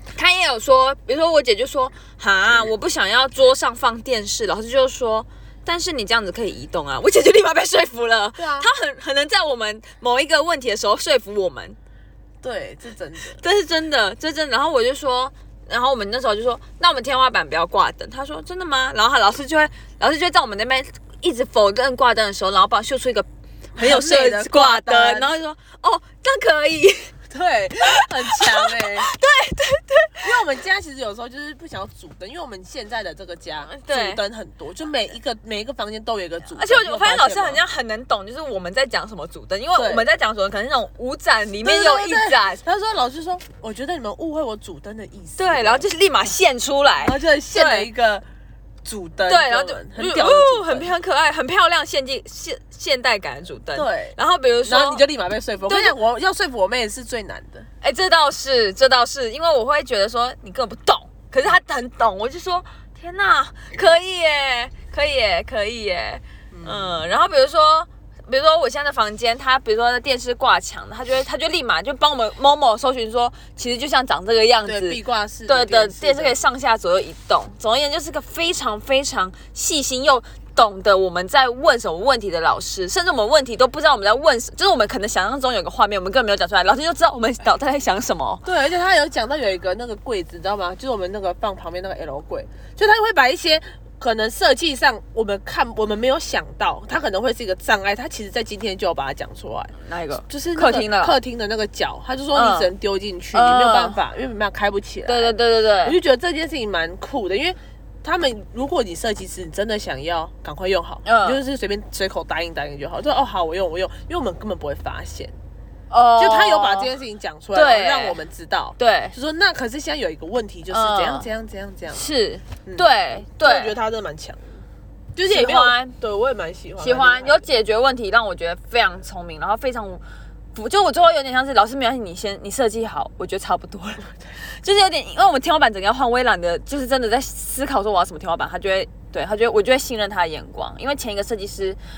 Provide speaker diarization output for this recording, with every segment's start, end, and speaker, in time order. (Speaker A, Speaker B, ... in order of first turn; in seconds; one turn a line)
Speaker A: 0.1-11.8
Speaker B: 8.4-8.7
Speaker B: 12.4-13.4
Speaker A: 13.4-27.1
Speaker B: 23.8-25.3
Speaker B: 27.3-29.1
Speaker A: 27.9-30.3
Speaker B: 30.2-37.6
Speaker A: 33.7-34.2
Speaker A: 36.6-42.6
Speaker B: 39.8-40.1
Speaker B: 41.6-45.9
Speaker A: 45.4-47.9
Speaker B: 47.0-48.3
Speaker B: 48.8-50.9
Speaker A: 49.3-55.0
Speaker B: 53.7-57.7
Speaker A: 55.7-56.0
Speaker A: 57.8-88.5
Speaker B: 66.5-67.0
Speaker B: 74.6-76.4
Speaker B: 88.4-99.7
Speaker A: 99.8-101.2
Speaker B: 100.3-115.4
Speaker A: 102.3-102.7
Speaker A: 103.3-104.0
Speaker A: 105.1-106.0
Speaker A: 111.0-111.4
Speaker A: 115.9-116.9
Speaker B: 116.2-122.1
Speaker A: 117.5-118.2
Speaker A: 118.8-119.2
Speaker A: 120.7-121.3
Speaker A: 121.9-123.8
Speaker B: 123.4-124.6
Speaker B: 125.2-127.5
Speaker A: 125.2-126.0
Speaker A: 126.8-130.0
Speaker A: 130.6-141.8